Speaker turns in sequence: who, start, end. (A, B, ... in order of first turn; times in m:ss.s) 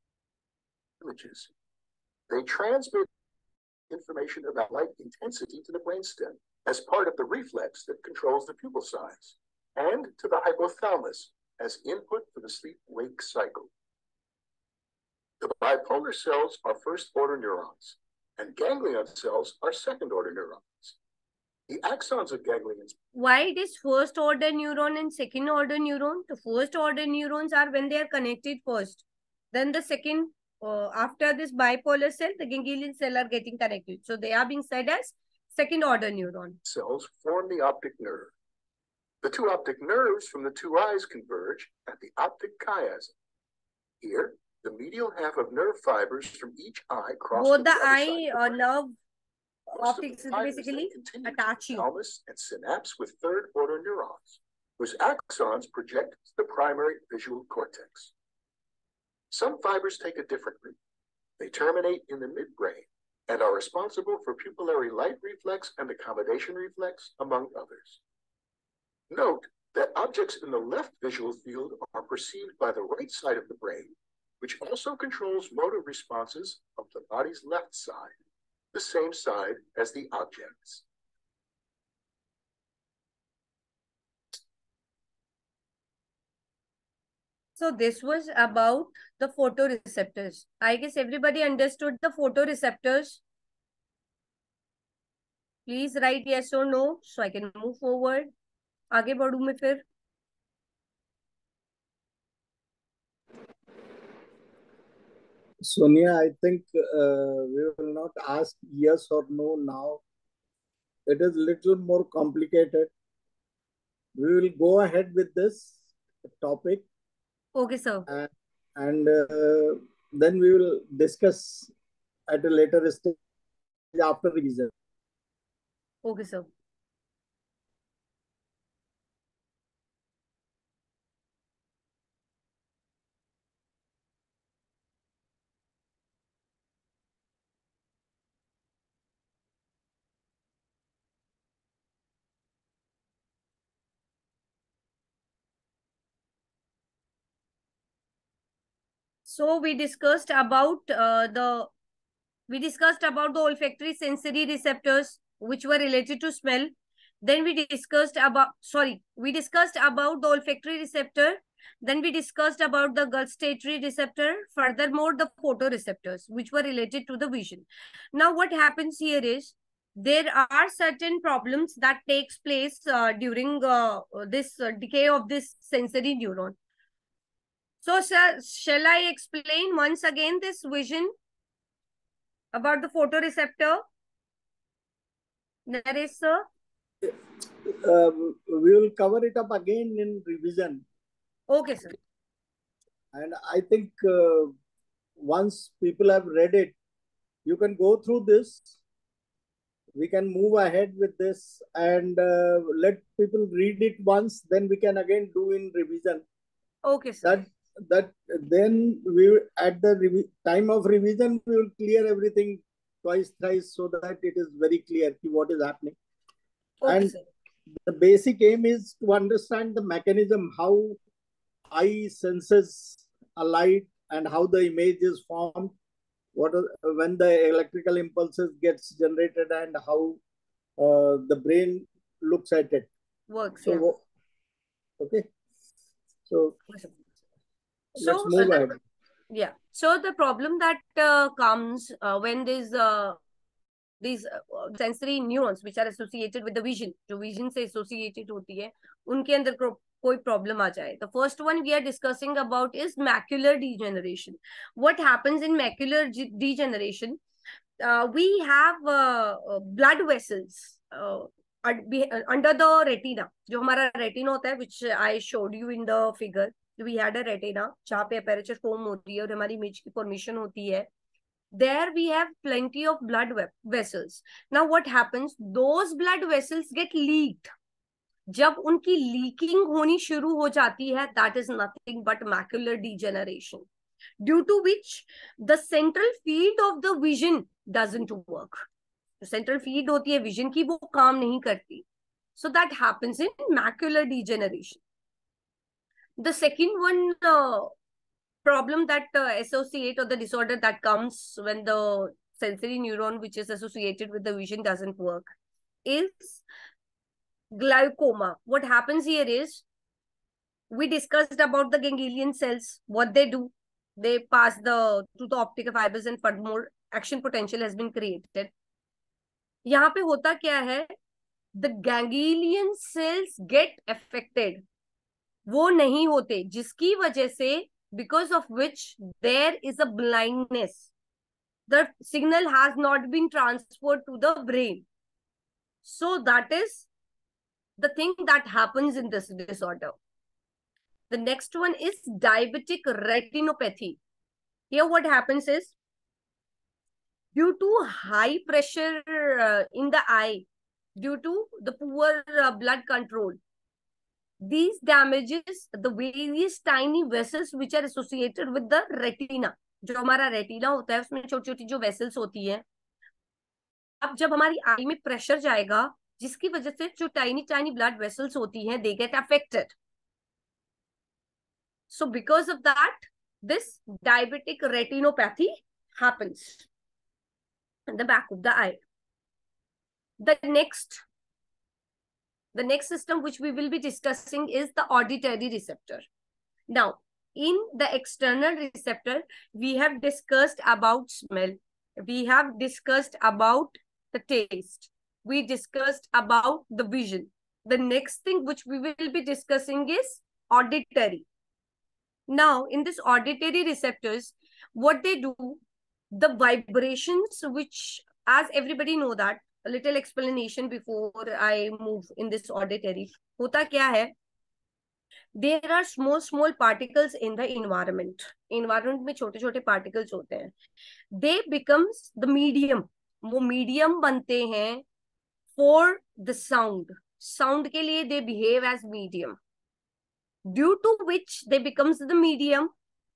0:01.0-0:01.5 A
0:02.3-0:03.1 A
0:03.9-0:13.7 A
0:15.4-0:21.0 A
0:21.7-0:23.0 A
0:23.2-0:36.6 B
0:36.6-0:38.3 A
0:39.2-0:43.1 A
0:44.0-0:48.6 A
0:47.4-0:49.0 B
0:49.7-0:58.1 A
0:49.7-0:51.9 B
0:59.3-1:00.8 A
1:01.4-1:08.0 A
1:09.1-1:18.2 A
1:18.7-1:20.8 A
1:27.6-1:33.2 B
1:35.7-1:38.3 B
1:38.9-1:39.8 B
1:45.6-1:50.0 C
1:51.1-1:52.9 C
1:54.2-1:55.8 C
1:56.4-1:56.9 C
1:57.6-1:58.1 B
1:58.1-2:01.7 C
2:02.3-2:03.2 C
2:03.9-2:04.7 C
2:06.0-2:06.5 B
2:29.3-2:31.7 B
2:32.5-2:56.6 B
2:57.8-3:01.1 B
3:02.5-3:03.8 B
3:05.7-3:06.4 B
3:07.1-3:10.8 C
3:11.5-3:12.0 B
3:13.1-3:14.5 C
3:15.2-3:16.8 C
3:17.5-3:18.8 C
3:20.0-3:26.2 C
3:26.8-3:27.4 B
3:27.2-3:36.0 C
3:36.8-3:37.2 B
3:36.9-3:37.1 C
3:37.8-3:41.0 C
3:41.7-3:45.7 C
3:46.4-3:50.2 C
3:50.8-3:52.9 C
3:53.3-3:53.9 B
3:53.6-3:54.0 C
3:55.0-3:55.3 C
3:56.3-3:56.6 C
3:56.7-3:57.0 B
3:58.0-3:58.8 C
3:58.0-3:58.7 B
3:59.3-4:03.2 B
4:04.0-4:17.2 B
4:17.8-4:30.9 B
4:31.5-4:37.5 B
4:38.3-4:43.6 B
4:44.2-4:48.7 B
4:49.2-4:51.8 B
4:52.4-4:54.8 B
4:56.2-4:57.7 B
4:58.4-5:05.3 B
5:05.8-5:06.4 B
5:07.5-5:09.6 B
5:10.7-5:18.5 B
5:19.7-5:20.9 B
5:21.6-5:24.6 B
5:25.5-5:30.9 B
5:31.7-5:34.8 B
5:35.8-5:36.9 B
5:37.8-5:40.0 B
5:41.1-5:44.0 B
5:44.7-5:45.7 B
5:47.4-5:50.4 B
5:51.0-5:53.4 B
5:54.4-6:02.6 B
6:04.0-6:09.7 B
6:11.9-6:16.7 B
6:17.9-6:18.8 B
6:20.2-6:21.0 B
6:22.5-6:26.1 B
6:26.7-6:41.2 B
6:42.3-6:45.6 B
6:46.1-6:54.1 B
6:55.4-7:00.5 B
7:01.1-7:04.8 B
7:05.6-7:09.4 B
7:10.5-7:12.7 B